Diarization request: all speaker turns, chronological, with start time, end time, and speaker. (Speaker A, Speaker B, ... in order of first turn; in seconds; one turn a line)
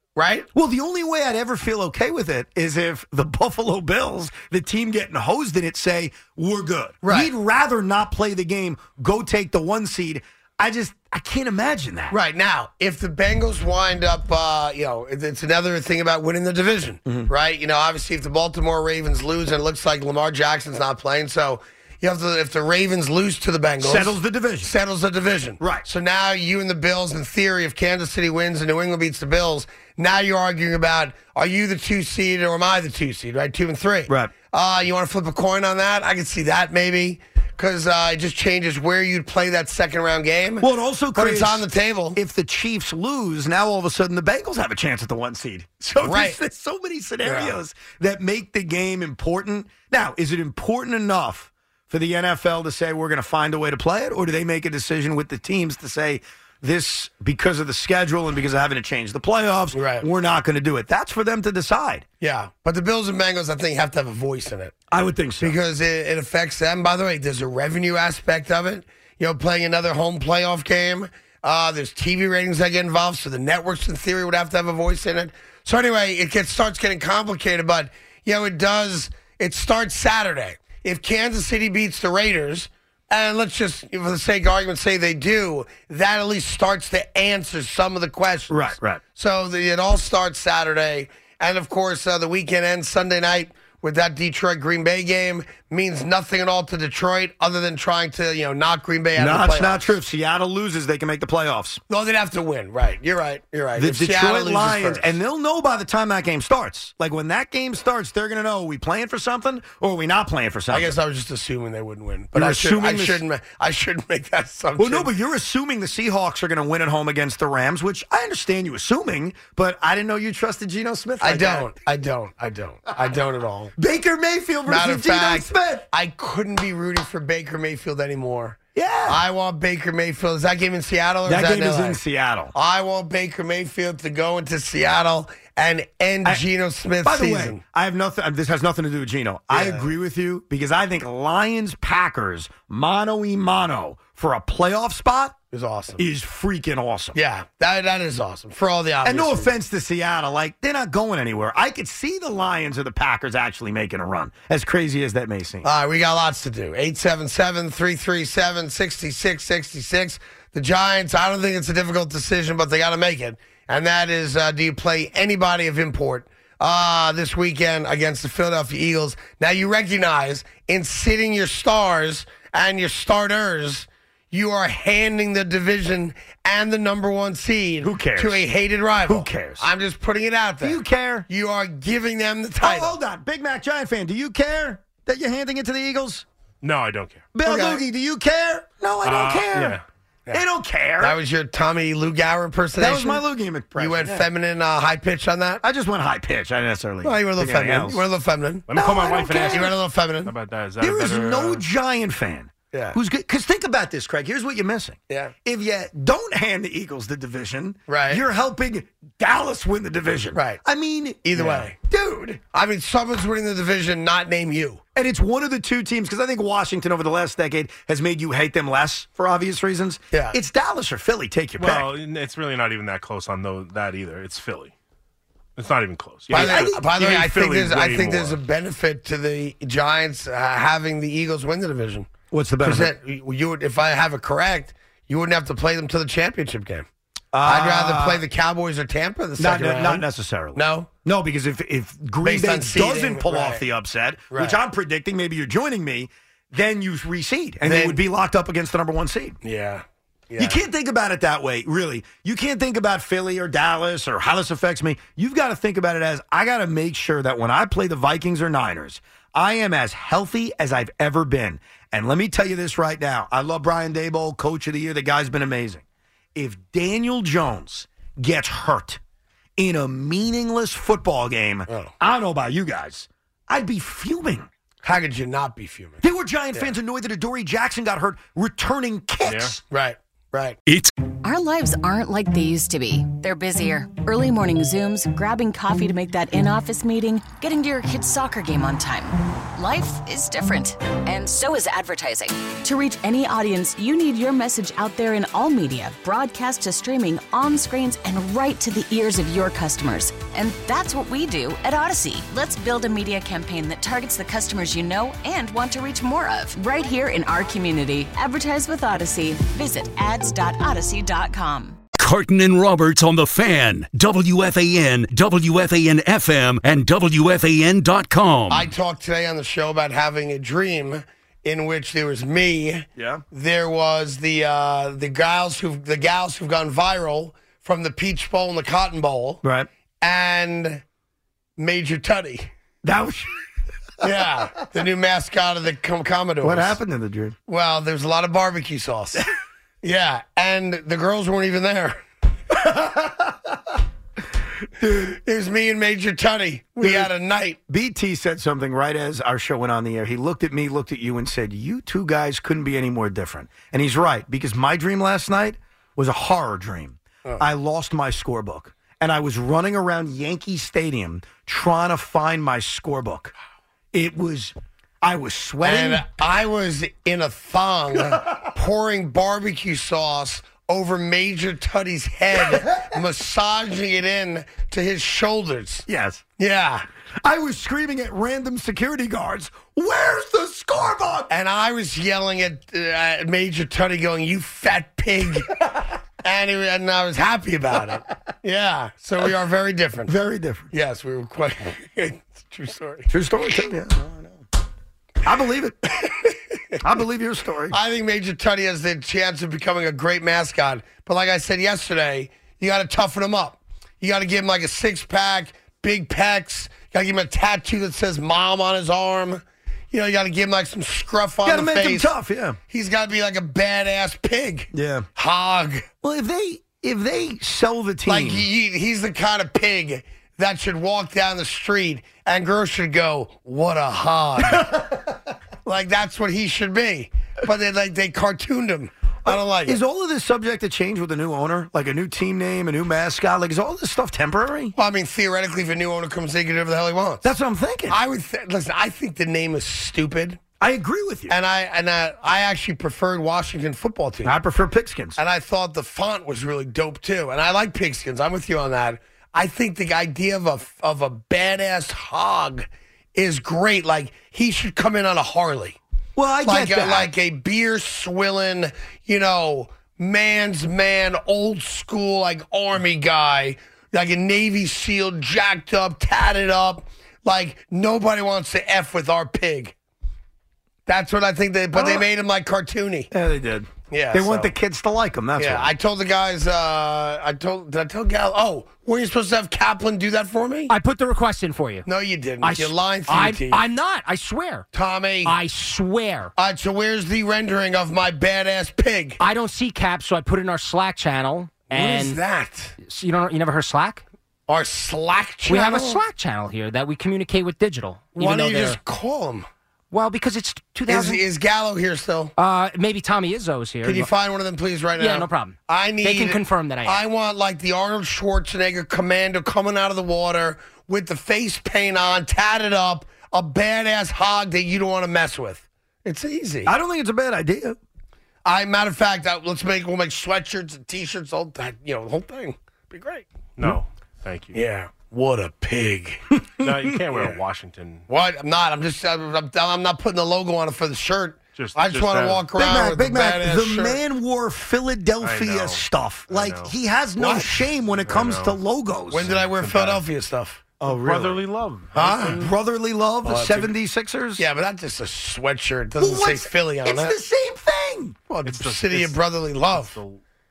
Speaker A: 0.2-0.5
Speaker B: 0.5-12.2
Speaker A: 7.0-7.3
Speaker A: 12.1-42.2
Speaker B: 23.8-24.7
Speaker B: 25.6-25.9
Speaker B: 34.1-34.3
Speaker B: 40.6-62.0
Speaker A: 46.0-46.4
Speaker A: 47.2-47.5
Speaker A: 59.7-60.1
Speaker A: 62.2-64.8
Speaker B: 64.9-65.6
Speaker A: 65.4-100.0
Speaker B: 88.5-89.0
Speaker B: 99.2-101.8
Speaker A: 101.9-105.1
Speaker B: 103.8-111.0
Speaker A: 110.7-115.1
Speaker B: 112.3-113.2
Speaker B: 114.8-121.7
Speaker A: 121.2-123.7
Speaker B: 123.8-125.8
Speaker A: 124.7-132.0
Speaker B: 128.8-129.2
Speaker B: 131.3-132.5
Speaker A: 132.5-137.6
Speaker B: 137.0-145.4
Speaker A: 139.5-139.9
Speaker A: 145.5-146.0
Speaker B: 146.0-147.2
Speaker A: 147.1-149.5
Speaker B: 149.0-155.7
Speaker A: 155.6-183.0
Speaker B: 177.8-178.4
Speaker B: 179.1-179.7
Speaker B: 180.6-181.3
Speaker B: 182.6-186.3
Speaker C: 186.6-187.3
Speaker B: 187.3-189.8
Speaker A: 187.4-187.8
Speaker C: 189.0-189.8
Speaker B: 190.3-191.2
Speaker A: 191.0-193.2
Speaker B: 192.8-194.3
Speaker A: 193.8-195.6
Speaker B: 195.6-198.1
Speaker A: 197.0-198.7
Speaker C: 198.7-201.6
Speaker B: 198.7-199.8
Speaker A: 199.4-200.3
Speaker B: 200.8-212.4
Speaker A: 202.7-203.0
Speaker A: 207.9-208.2
Speaker A: 210.3-210.6
Speaker A: 211.2-211.8
Speaker A: 212.4-214.8
Speaker B: 214.9-221.9
Speaker C: 221.6-224.7
Speaker C: 225.6-228.4
Speaker B: 226.3-226.8
Speaker A: 226.3-232.1
Speaker B: 232.3-232.9
Speaker A: 232.6-236.9
Speaker B: 237.3-238.2
Speaker A: 237.4-240.9
Speaker B: 239.4-249.4
Speaker A: 242.2-243.6
Speaker A: 244.3-244.6
Speaker A: 247.6-248.0
Speaker A: 249.4-250.6
Speaker B: 250.4-265.8
Speaker B: 266.4-269.0
Speaker B: 269.6-274.5
Speaker A: 274.8-276.0
Speaker B: 276.0-279.6
Speaker C: 279.2-279.6
Speaker A: 279.7-280.6
Speaker D: 281.2-311.8
Speaker E: 312.0-318.7
Speaker A: 318.5-329.4
Speaker B: 323.0-323.2
Speaker B: 329.4-329.7
Speaker A: 330.0-330.8
Speaker A: 331.6-332.5
Speaker B: 332.8-333.4
Speaker A: 334.0-336.8
Speaker B: 336.4-337.4
Speaker A: 337.5-339.3
Speaker A: 339.8-342.0
Speaker B: 342.7-343.2
Speaker B: 344.8-345.1
Speaker A: 344.9-347.6
Speaker B: 346.8-347.1
Speaker B: 347.7-363.3
Speaker B: 363.9-366.1
Speaker A: 365.6-375.9
Speaker B: 372.4-372.9
Speaker B: 375.9-376.2
Speaker A: 376.4-376.9
Speaker B: 377.2-381.3
Speaker A: 381.3-385.6
Speaker A: 386.2-390.1
Speaker B: 390.1-390.7
Speaker A: 390.7-393.1
Speaker B: 393.1-394.4
Speaker B: 395.2-395.9
Speaker B: 396.8-397.8
Speaker A: 397.7-412.1
Speaker B: 411.4-412.6
Speaker A: 412.7-415.9
Speaker B: 414.7-415.1
Speaker B: 416.0-418.4
Speaker A: 418.1-424.9
Speaker A: 425.6-429.8
Speaker B: 429.2-434.7
Speaker A: 434.8-437.3
Speaker B: 437.2-438.0
Speaker A: 437.9-440.4
Speaker B: 440.6-441.4
Speaker A: 441.3-444.4
Speaker B: 444.2-445.2
Speaker A: 445.2-455.8
Speaker B: 456.2-457.1
Speaker A: 456.5-469.8
Speaker A: 470.9-473.1
Speaker B: 471.7-472.1
Speaker B: 473.1-475.7
Speaker A: 473.9-474.5
Speaker A: 475.4-480.7
Speaker F: 480.7-481.9
Speaker A: 481.9-483.6
Speaker F: 482.4-484.7
Speaker A: 484.7-485.4
Speaker F: 485.2-486.3
Speaker A: 486.4-489.2
Speaker F: 489.2-492.2
Speaker A: 491.7-492.8
Speaker F: 492.8-494.0
Speaker A: 494.5-496.0
Speaker F: 495.5-498.8
Speaker A: 498.2-499.5
Speaker F: 499.9-501.2
Speaker A: 500.9-502.3
Speaker F: 502.4-504.1
Speaker A: 503.8-516.7
Speaker F: 505.0-507.0
Speaker B: 516.6-517.8
Speaker A: 518.5-523.3
Speaker C: 523.6-524.6
Speaker A: 524.5-526.3
Speaker C: 526.6-528.1
Speaker A: 528.1-534.0
Speaker C: 531.5-532.5
Speaker B: 532.5-539.3
Speaker C: 535.2-536.7
Speaker A: 537.2-537.7
Speaker C: 538.0-538.6
Speaker A: 539.1-540.6
Speaker C: 539.1-540.0
Speaker B: 540.8-541.4
Speaker C: 540.8-542.5
Speaker A: 541.9-542.4
Speaker B: 542.3-544.4
Speaker A: 543.2-543.7
Speaker A: 544.4-547.2
Speaker B: 546.0-548.2
Speaker A: 548.3-550.0
Speaker C: 548.4-549.2
Speaker C: 549.7-550.2